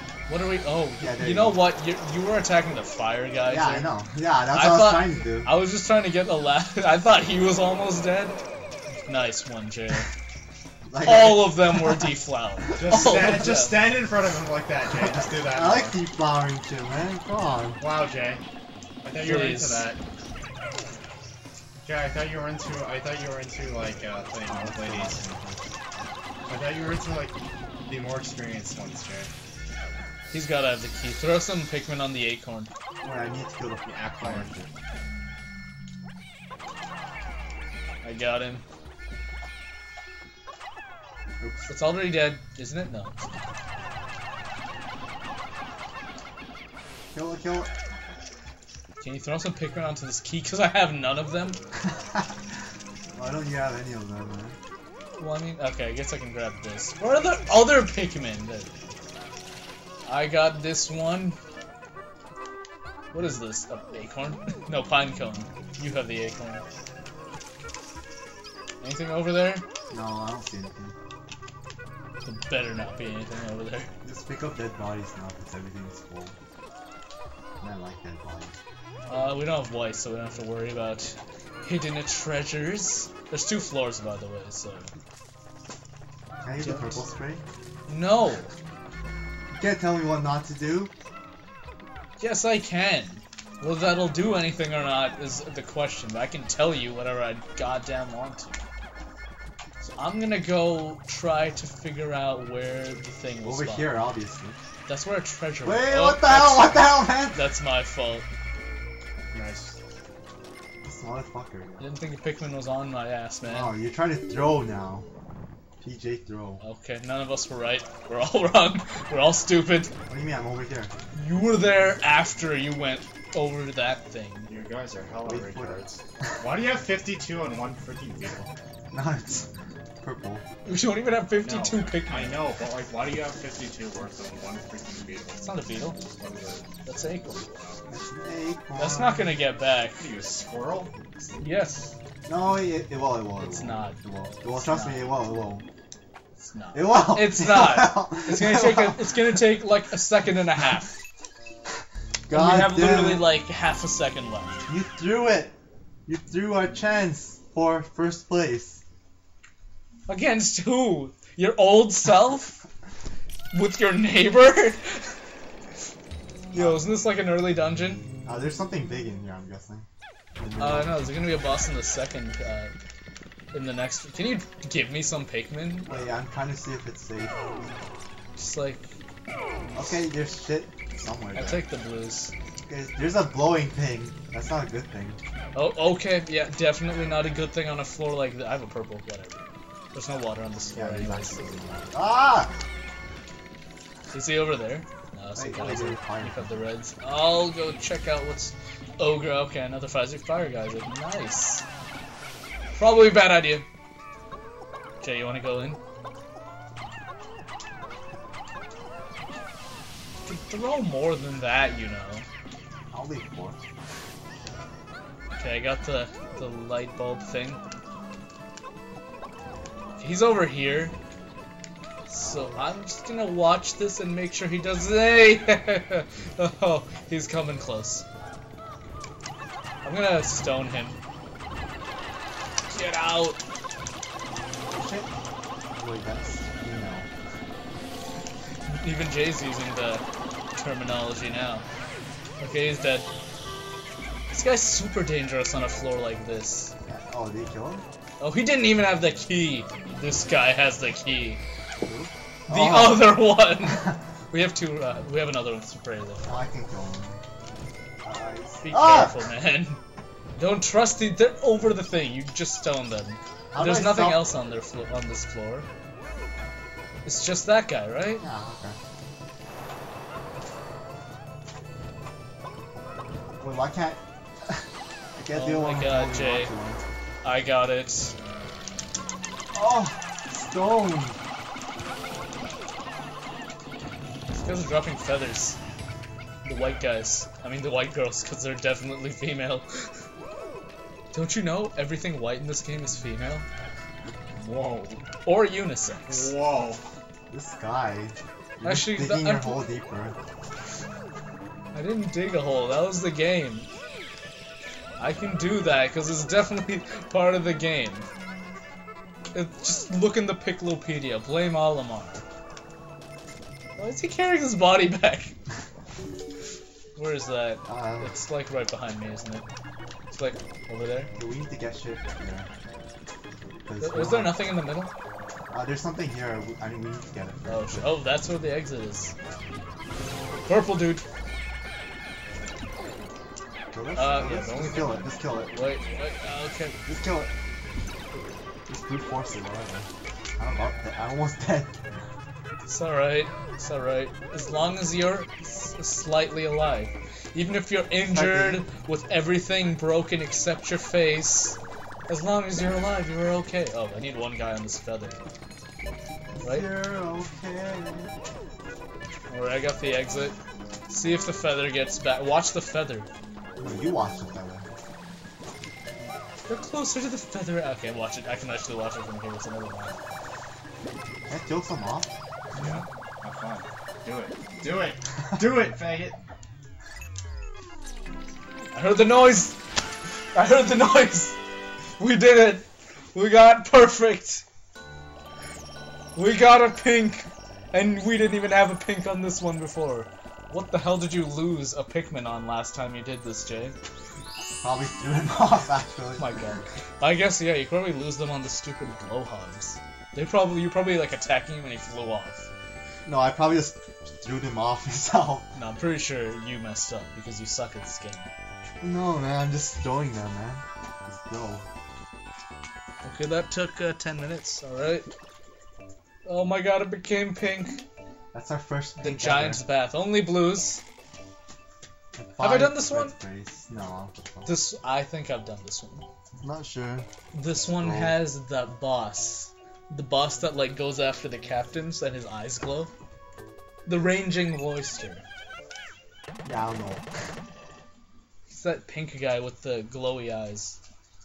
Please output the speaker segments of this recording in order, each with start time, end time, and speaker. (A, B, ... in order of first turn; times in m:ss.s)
0:00.3-0:03.9 A
0:01.0-0:01.6 B
0:03.4-0:05.5 B
0:04.5-0:08.4 A
0:09.1-0:10.1 A
0:10.9-0:12.2 B
0:11.0-0:13.8 A
0:12.8-0:16.0 C
0:12.9-0:13.4 B
0:15.2-0:17.8 B
0:17.8-0:18.4 C
0:19.0-0:20.0 C
0:19.2-0:19.9 A
0:21.8-0:25.2 C
0:24.5-0:25.6 B
0:26.5-0:29.3 C
0:30.3-0:32.7 A
0:33.0-0:34.7 B
0:33.8-0:34.5 C
0:38.0-0:38.6 A
0:41.4-0:41.7 B
0:41.7-0:43.2 A
0:47.1-0:48.1 B
0:49.0-0:51.6 A
0:53.1-0:54.6 B
0:55.2-0:58.7 A
1:00.1-1:01.4 A
1:03.1-1:06.6 A
1:08.8-1:09.6 A
1:09.9-1:11.0 B
1:12.2-1:13.9 A
1:14.0-1:16.4 B
1:17.6-1:18.6 B
1:19.1-1:24.9 A
1:26.4-1:27.4 B
1:26.6-1:27.0 A
1:27.9-1:28.5 A
1:29.5-1:30.9 B
1:32.2-1:38.6 A
1:39.8-1:44.0 A
1:43.4-1:44.6 B
1:44.9-1:48.3 A
1:45.6-1:47.4 B
1:49.3-1:49.8 C
1:50.8-1:51.8 B
1:51.8-1:53.7 A
1:53.4-1:55.0 B
1:55.8-1:56.6 B
1:56.6-1:59.9 A
2:00.1-2:00.9 B
2:01.2-2:04.5 A
2:04.5-2:08.5 C
2:05.2-2:05.8 B
2:08.9-2:09.5 B
2:10.0-2:10.4 B
2:10.7-2:12.5 A
2:11.4-2:15.4 C
2:15.4-2:16.0 A
2:16.0-2:16.7 C
2:16.9-2:17.7 A
2:17.9-2:19.4 B
2:18.8-2:20.0 A
2:20.0-2:20.9 C
2:21.2-2:22.0 A
2:22.3-2:25.6 B
2:23.4-2:25.1 A
2:26.4-2:30.9 A
2:26.7-2:29.2 B
2:32.3-2:33.3 B
2:32.3-2:34.7 A
2:34.7-2:35.6 B
2:36.1-2:38.8 B
2:40.1-2:42.6 A
2:43.5-2:45.1 A
2:46.5-2:46.9 B
2:46.5-2:48.0 A
2:48.2-2:49.9 B
2:50.4-2:51.0 B
2:50.6-2:52.7 A
2:53.5-2:55.9 A
2:55.9-2:57.4 B
2:58.4-2:58.8 A
2:59.8-3:01.6 B
3:01.4-3:02.3 A
3:02.7-3:05.2 B
3:05.6-3:11.8 A
3:10.7-3:12.5 B
3:14.1-3:21.6 A
3:15.4-3:16.5 B
3:22.8-3:23.7 A
3:25.0-3:25.8 A
3:30.3-3:32.3 A
3:32.9-3:33.6 B
3:35.4-3:37.6 A
3:40.0-3:41.0 A
3:42.1-3:48.0 A
3:42.2-3:42.7 B
3:49.8-3:51.0 A
3:52.7-3:53.4 A
3:54.7-3:55.1 B
3:55.7-3:57.1 B
3:58.7-4:00.0 A
4:00.6-4:01.6 A
4:02.4-4:03.1 A
4:04.3-4:06.7 A
4:06.9-4:07.8 B
4:08.2-4:11.4 A
4:11.8-4:13.2 B
4:12.5-4:16.3 A
4:16.2-4:17.2 B
4:18.0-4:19.2 B
4:18.6-4:19.8 A
4:20.4-4:25.7 A
4:23.5-4:24.3 B
4:27.1-4:28.2 A
4:28.2-4:28.8 B
4:33.4-4:34.6 B
4:35.2-4:36.8 B
4:35.3-4:36.5 A
4:37.2-4:38.1 A
4:39.5-4:41.2 B
4:44.3-4:45.6 A
4:46.4-4:49.7 A
4:51.1-4:53.5 A
4:54.4-4:55.0 C
4:55.2-4:56.3 A
4:56.1-4:56.8 C
4:57.3-5:00.2 B
4:58.6-4:59.7 A
5:01.7-5:03.7 A
5:05.0-5:08.0 A
5:09.3-5:12.2 A
5:13.8-5:15.3 A
5:17.0-5:19.5 A
5:17.6-5:18.2 B
5:20.1-5:21.1 A
5:21.2-5:22.5 B
5:23.6-5:24.5 B
5:23.8-5:24.9 A
5:25.5-5:28.0 B
5:27.5-5:29.1 A
5:30.5-5:31.0 A
5:33.7-5:35.5 B
5:34.0-5:36.8 A
5:36.8-5:37.3 B
5:38.7-5:39.9 B
5:40.4-5:41.8 B
5:42.7-5:55.2 A
5:48.0-5:48.6 B
5:56.4-5:58.1 B
5:56.4-5:56.7 A
5:59.3-6:00.4 A
6:00.9-6:03.1 A
6:03.6-6:04.7 B
6:06.5-6:10.0 A
6:11.3-6:12.1 B
6:12.6-6:16.2 C
6:18.7-6:19.6 A
6:20.3-6:21.4 A
6:22.0-6:24.4 A
6:26.2-6:33.8 A
6:34.6-6:36.4 B
6:36.2-6:42.5 A
6:43.1-6:45.5 B
6:45.6-6:48.3 A
6:48.8-6:51.6 B
6:53.0-6:55.1 A
6:56.2-6:57.8 A
6:58.3-6:59.6 B
6:59.0-7:00.8 A
7:02.2-7:04.5 B
7:02.4-7:03.2 A
7:04.5-7:06.1 A
7:06.4-7:07.1 B
7:07.3-7:12.9 A
7:07.7-7:08.2 B
7:13.9-7:15.2 A
7:16.4-7:17.1 B
7:18.5-7:20.8 A